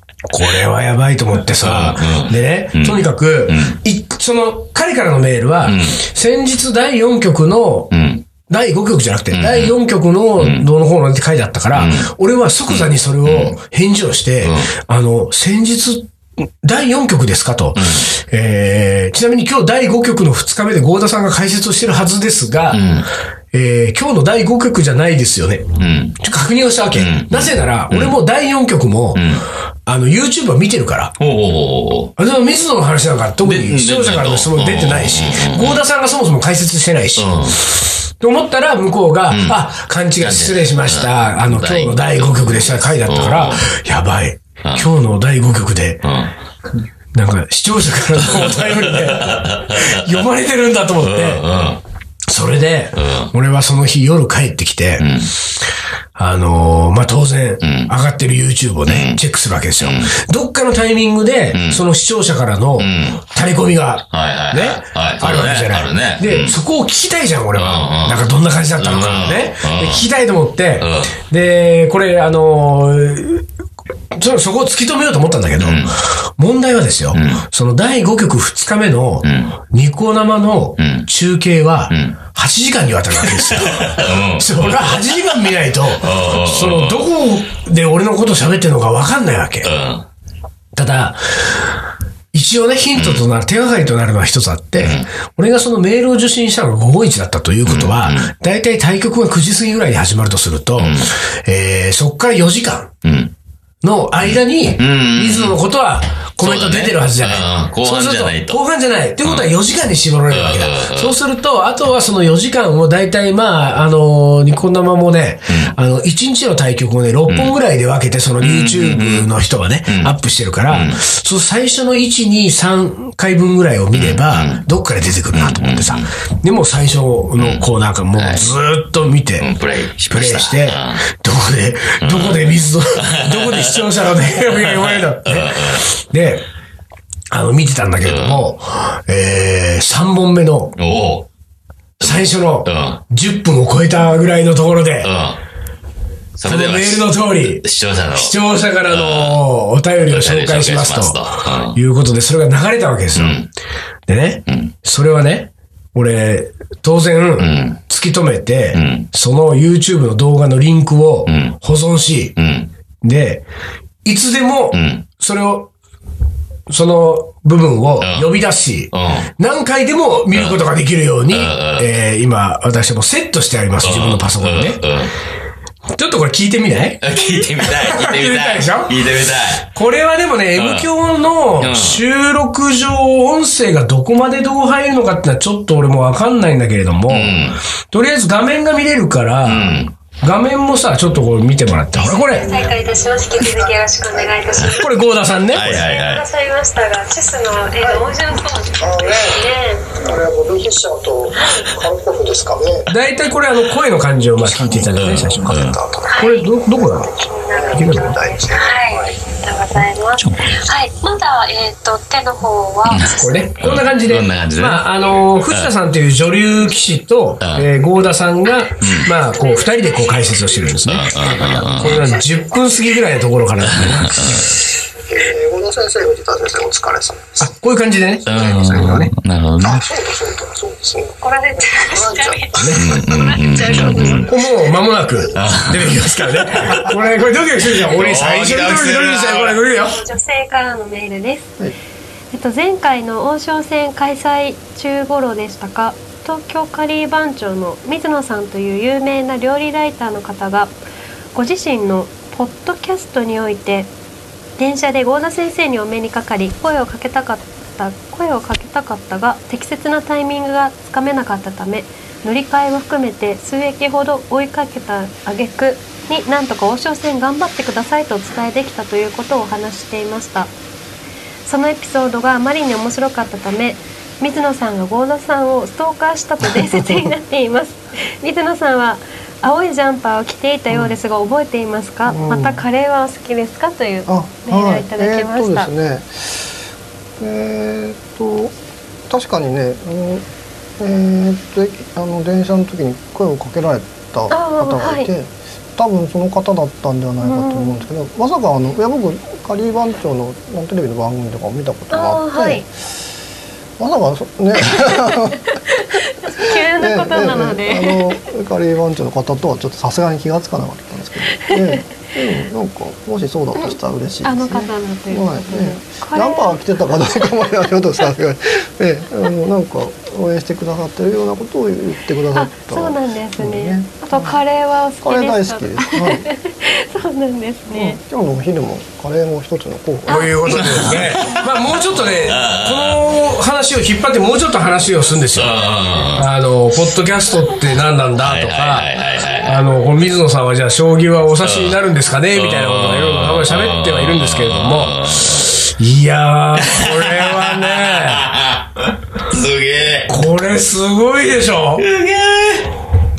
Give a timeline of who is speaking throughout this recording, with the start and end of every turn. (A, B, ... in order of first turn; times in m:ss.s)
0:00.3-0:07.9 A
0:01.6-0:03.8 B
0:05.6-0:06.0 B
0:07.9-0:08.2 B
0:08.5-0:22.8 A
0:09.3-0:09.8 B
0:10.4-0:10.6 B
0:11.7-0:12.1 B
0:12.7-0:13.6 B
0:14.4-0:14.7 B
0:17.8-0:18.1 B
0:22.7-0:23.1 B
0:23.5-0:29.3 A
0:25.8-0:26.2 B
0:27.0-0:28.2 B
0:29.2-0:29.4 B
0:29.9-0:31.2 A
0:31.2-0:32.1 B
0:32.2-0:46.0 A
0:33.4-0:35.8 B
0:37.2-0:37.6 B
0:39.3-0:39.6 B
0:40.2-0:43.7 B
0:44.6-0:44.9 B
0:46.0-0:46.3 B
0:47.2-0:51.4 A
0:48.2-0:50.2 B
0:51.0-0:51.8 B
0:52.3-0:55.2 A
0:53.0-0:53.3 B
0:55.0-0:55.3 B
0:56.2-1:13.5 A
0:57.6-0:57.9 B
0:58.9-0:59.2 B
0:59.8-1:00.2 B
1:01.5-1:01.8 B
1:02.8-1:03.2 B
1:04.1-1:06.6 B
1:07.6-1:10.0 B
1:10.8-1:11.2 B
1:14.1-1:29.7 A
1:15.6-1:16.0 B
1:17.1-1:17.4 B
1:19.2-1:19.6 B
1:20.8-1:21.1 B
1:21.9-1:22.2 B
1:23.3-1:25.2 B
1:26.0-1:27.1 B
1:29.6-1:30.1 B
1:30.8-1:31.8 A
1:32.3-1:42.9 A
1:33.0-1:33.2 B
1:34.8-1:35.1 B
1:37.6-1:38.3 B
1:40.8-1:41.1 B
1:43.0-1:43.3 B
1:43.8-2:09.5 A
1:44.2-1:45.6 B
1:46.4-1:48.6 B
1:49.2-1:49.5 B
1:50.3-1:51.1 B
1:55.5-1:55.8 B
1:57.3-1:57.6 B
1:58.4-1:59.3 B
1:59.9-2:00.2 B
2:00.7-2:01.0 B
2:03.9-2:04.6 B
2:05.3-2:06.1 B
2:07.4-2:08.5 B
2:09.4-2:11.0 B
2:10.1-2:16.5 A
2:12.0-2:13.9 B
2:14.5-2:15.9 B
2:17.3-2:20.8 A
2:18.0-2:18.5 B
2:20.8-2:21.3 B
2:22.0-2:23.0 B
2:22.0-2:25.1 A
2:25.0-2:25.4 B
2:26.4-2:29.4 B
2:26.4-2:33.4 A
2:30.1-2:31.8 B
2:33.1-2:33.5 B
2:34.1-2:42.4 A
2:34.5-2:34.7 B
2:37.4-2:37.8 B
2:38.7-2:39.1 B
2:41.3-2:41.6 B
2:42.4-2:42.7 B
2:43.0-2:43.4 A
2:44.0-2:45.7 A
2:44.7-2:45.0 B
2:46.7-2:54.8 A
2:48.0-2:48.3 B
2:48.9-2:49.3 B
2:50.3-2:50.6 B
2:51.3-2:51.9 B
2:53.8-2:55.1 B
2:56.0-2:59.0 A
2:57.0-2:59.7 B
2:59.8-3:12.6 A
3:00.6-3:00.9 B
3:01.6-3:02.0 B
3:07.1-3:07.6 B
3:09.4-3:09.9 B
3:11.9-3:15.0 C
3:12.6-3:12.8 D
3:13.4-3:14.6 D
3:14.7-3:15.9 A
3:15.5-3:16.2 B
3:15.7-3:20.0 C
3:17.8-3:18.1 D
3:18.8-3:22.9 D
3:21.4-3:21.7 C
3:22.9-3:27.1 A
3:24.5-3:25.8 B
3:25.5-3:29.2 D
3:26.1-3:26.5 C
3:27.1-3:33.5 C
3:27.7-3:28.2 A
3:30.2-3:30.6 B
3:32.9-3:34.8 B
3:33.0-3:44.5 A
3:37.4-3:37.7 B
3:38.8-3:39.1 B
3:39.3-3:40.2 C
3:40.8-3:42.1 B
3:41.5-3:42.2 D
3:43.6-3:44.6 B
3:45.0-3:47.5 D
3:47.4-3:49.1 A
3:48.3-3:49.9 B
3:48.3-3:49.0 D
3:49.6-3:52.8 D
3:51.2-3:54.4 C
3:52.5-3:53.0 A
3:52.7-3:54.3 B
3:53.5-3:54.4 D
3:54.2-4:00.0 A
3:55.3-3:56.9 B
3:57.6-3:59.6 B
3:59.7-4:01.5 C
4:02.3-4:10.7 C
4:11.3-4:13.9 C
4:14.6-4:30.5 C
4:31.4-4:45.7 C
4:42.1-4:42.6 D
4:44.1-4:46.1 D
4:47.2-4:48.5 D
4:49.1-4:50.3 D
4:50.8-5:02.7 D
4:54.3-4:55.1 C
4:57.2-4:57.8 C
5:01.9-5:02.7 C
5:03.8-5:05.6 D
5:04.7-5:08.1 C
5:06.3-5:24.4 D
5:11.5-5:11.8 C
5:13.6-5:16.6 C
5:22.3-5:28.0 C
5:25.0-5:26.2 D
5:27.7-5:31.0 D
5:30.1-5:30.5 C
5:30.1-5:35.6 A
5:30.5-5:33.1 B
5:35.3-5:36.3 B
5:36.2-5:38.9 A
5:38.2-5:39.6 B
5:39.4-5:48.3 A
5:41.4-5:41.8 B
5:42.3-5:45.6 B
5:46.6-5:50.2 B
5:50.1-5:51.8 A
5:51.8-5:52.8 B